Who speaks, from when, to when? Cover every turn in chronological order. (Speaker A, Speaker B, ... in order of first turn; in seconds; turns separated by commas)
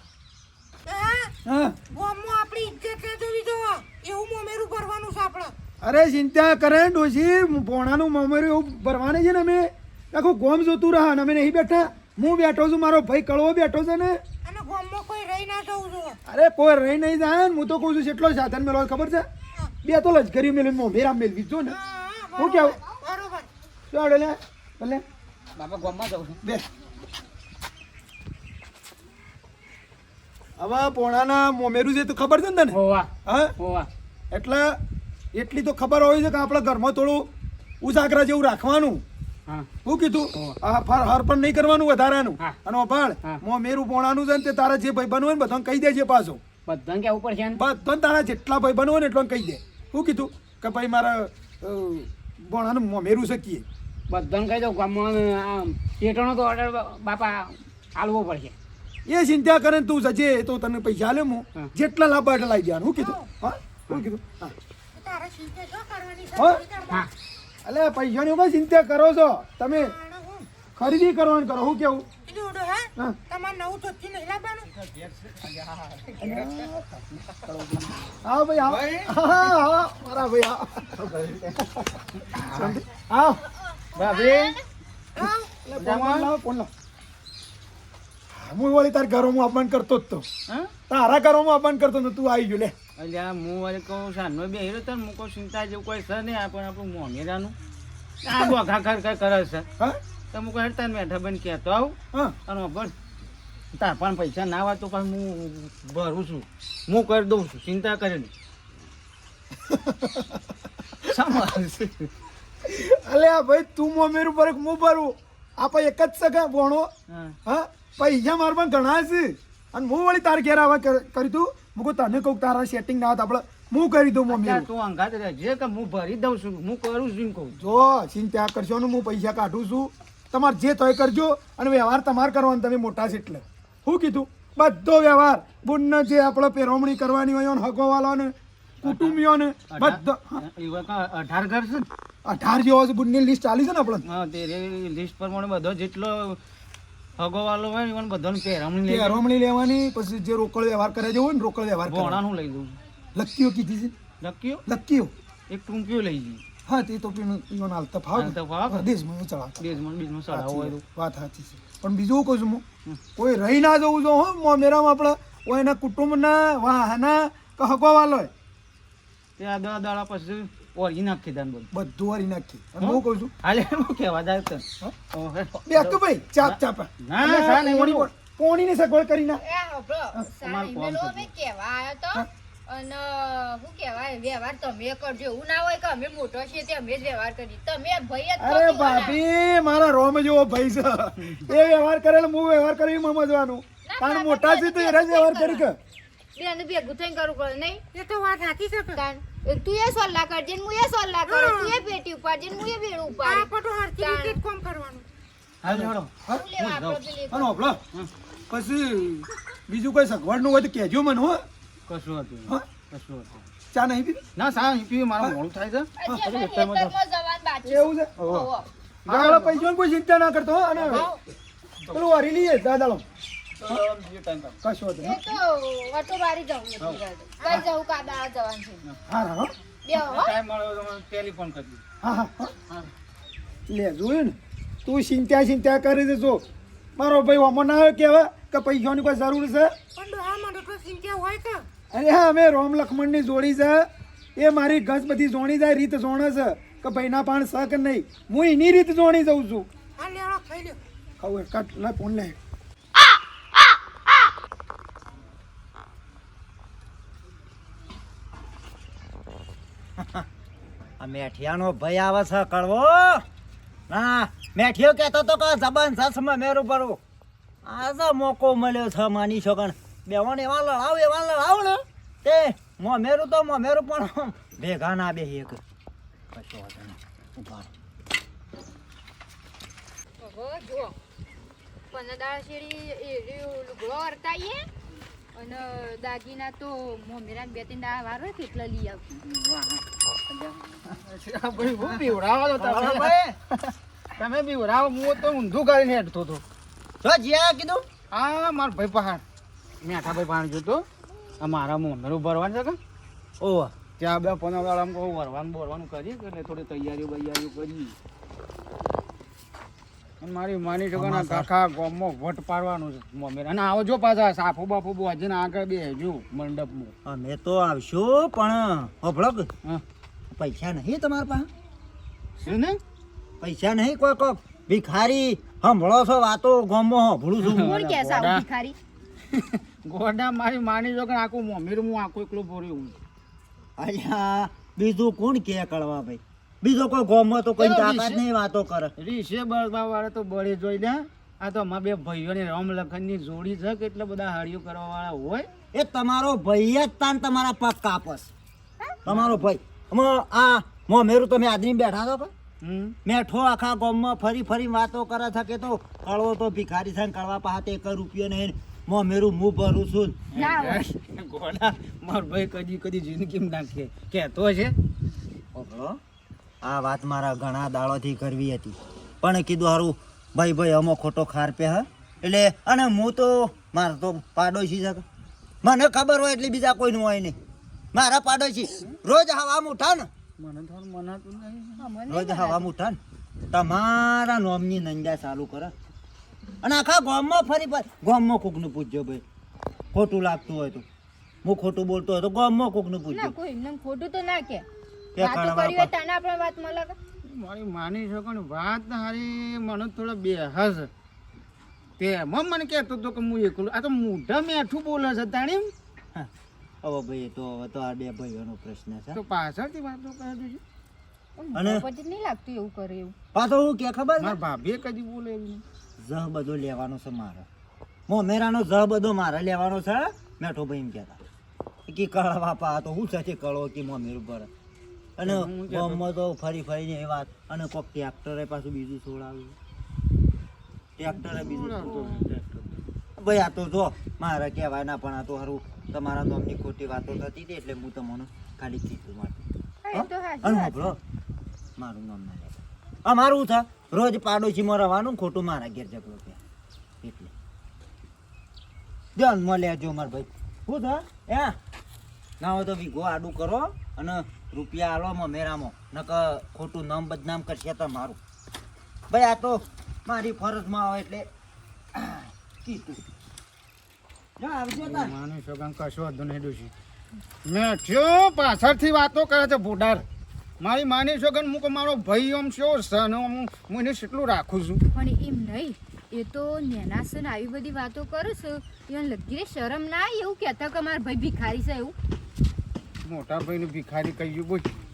Speaker A: 0.8-1.3, Speaker B: 1.4-1.8, Speaker A: 1.9-5.5, Speaker B: 5.8-14.2, Speaker A: 14.4-16.2, Speaker B: 16.2-19.3, Speaker B: 19.8-21.8, Speaker A: 21.7-23.5, Speaker B: 22.4-22.8, Speaker B: 23.9-25.0, Speaker C: 25.6-26.4, Speaker B: 30.6-33.5, Speaker C: 32.7-33.9, Speaker B: 34.3-34.8, Speaker B: 35.3-39.0, Speaker B: 39.8-46.4, Speaker C: 46.6-47.6, Speaker B: 47.5-53.6, Speaker C: 54.1-58.5, Speaker B: 59.1-64.5, Speaker A: 63.0-63.2, Speaker A: 65.0-67.1, Speaker B: 66.4-66.6, Speaker B: 67.6-69.9, Speaker A: 69.7-70.5, Speaker B: 70.8-72.1, Speaker A: 72.2-74.7, Speaker C: 74.6-78.0, Speaker B: 76.2-76.8, Speaker B: 78.2-81.0, Speaker C: 78.6-79.2, Speaker C: 81.1-81.5, Speaker C: 82.2-82.8, Speaker B: 82.5-83.4, Speaker C: 84.0-84.6, Speaker D: 84.0-84.6, Speaker A: 85.2-85.5, Speaker B: 85.2-86.7, Speaker C: 85.7-86.3, Speaker B: 88.3-90.2, Speaker B: 90.9-92.7, Speaker C: 93.0-97.5, Speaker C: 98.2-99.7, Speaker C: 100.3-102.9, Speaker C: 103.7-108.3, Speaker B: 109.7-110.4, Speaker C: 111.1-112.1, Speaker B: 112.6-116.9, Speaker C: 117.1-117.3, Speaker B: 117.4-124.7, Speaker C: 124.3-127.5, Speaker B: 127.5-140.4, Speaker C: 138.8-141.9, Speaker B: 142.2-144.0, Speaker C: 144.0-146.4, Speaker C: 147.2-149.2, Speaker B: 148.9-152.2, Speaker C: 151.9-152.8, Speaker B: 153.1-153.9, Speaker C: 154.2-154.6, Speaker B: 154.7-155.1, Speaker C: 155.5-156.4, Speaker B: 156.7-159.8, Speaker C: 158.1-158.9, Speaker C: 159.6-160.8, Speaker B: 160.3-168.3, Speaker C: 169.4-171.7, Speaker B: 171.7-173.3, Speaker C: 172.8-178.1, Speaker B: 175.6-179.4, Speaker D: 179.4-189.2, Speaker C: 180.4-181.3, Speaker B: 188.4-195.8, Speaker D: 191.5-191.7, Speaker D: 193.8-195.7, Speaker D: 196.3-197.8, Speaker A: 197.9-199.0, Speaker D: 198.9-204.4, Speaker A: 201.3-201.8, Speaker A: 203.2-205.1, Speaker C: 205.6-207.0, Speaker B: 205.7-206.5, Speaker D: 206.3-207.6, Speaker B: 207.3-207.8, Speaker B: 208.5-211.4, Speaker C: 211.9-213.4, Speaker B: 213.7-214.2, Speaker C: 214.3-216.9, Speaker D: 216.0-218.7, Speaker B: 217.6-218.4, Speaker C: 219.1-219.6, Speaker B: 219.1-221.1, Speaker C: 220.8-221.1, Speaker B: 221.9-223.0, Speaker C: 223.6-224.6, Speaker B: 224.6-225.2, Speaker D: 225.0-228.8, Speaker C: 226.8-227.6, Speaker B: 229.1-229.5, Speaker D: 229.8-230.3, Speaker C: 229.9-231.8, Speaker B: 232.0-232.5, Speaker B: 233.7-236.4, Speaker B: 236.9-239.8, Speaker A: 239.9-241.7, Speaker B: 241.9-249.7, Speaker A: 250.0-250.8, Speaker B: 251.2-252.3, Speaker E: 260.0-260.3, Speaker E: 261.0-263.2, Speaker E: 263.9-267.0, Speaker E: 267.6-275.6, Speaker E: 276.3-277.7, Speaker D: 280.2-281.0, Speaker D: 281.9-284.6, Speaker D: 285.4-289.1, Speaker C: 289.2-293.3, Speaker E: 292.6-293.3, Speaker C: 294.2-296.4, Speaker E: 297.0-297.9, Speaker C: 298.1-299.2, Speaker C: 299.8-300.9, Speaker C: 301.4-302.8, Speaker E: 303.4-303.7, Speaker C: 304.0-307.9, Speaker C: 310.2-316.9, Speaker E: 310.9-311.5, Speaker E: 317.0-319.5, Speaker E: 320.3-321.5, Speaker C: 322.4-322.8, Speaker E: 323.4-328.0, Speaker C: 327.4-328.4, Speaker D: 327.5-328.8, Speaker C: 329.3-332.9, Speaker E: 333.8-338.9, Speaker C: 337.6-338.2, Speaker C: 339.0-345.5, Speaker E: 345.7-348.3, Speaker E: 349.1-352.3, Speaker C: 349.1-349.4, Speaker C: 352.6-352.9, Speaker E: 353.0-360.3, Speaker C: 360.3-364.7, Speaker D: 360.3-360.9, Speaker E: 365.5-366.0, Speaker E: 366.6-375.0, Speaker E: 375.6-377.4, Speaker E: 377.9-380.1, Speaker C: 380.4-381.9, Speaker D: 381.8-382.7, Speaker E: 382.1-383.0, Speaker E: 383.5-385.7, Speaker E: 386.6-389.2, Speaker E: 389.9-390.8, Speaker E: 391.4-393.3, Speaker D: 393.1-394.6, Speaker E: 395.1-395.9, Speaker D: 395.2-396.9, Speaker C: 397.2-400.9, Speaker C: 402.0-405.7, Speaker E: 406.8-409.2, Speaker C: 409.1-410.6, Speaker D: 411.4-413.1, Speaker E: 411.5-411.8, Speaker E: 413.3-414.4, Speaker C: 414.2-415.6, Speaker E: 416.0-417.5, Speaker E: 418.1-421.2, Speaker E: 421.9-424.5, Speaker E: 425.2-429.6, Speaker C: 425.2-426.0, Speaker E: 431.0-432.2, Speaker C: 431.1-432.8, Speaker E: 433.2-441.0, Speaker D: 439.8-441.0, Speaker E: 441.8-446.4, Speaker E: 447.0-447.3, Speaker E: 449.1-451.6, Speaker E: 452.4-458.2, Speaker E: 459.1-461.3, Speaker E: 461.9-463.0, Speaker E: 464.4-465.1, Speaker C: 464.8-466.7, Speaker C: 467.4-470.0, Speaker C: 470.6-474.8, Speaker D: 474.9-481.9, Speaker C: 483.0-484.8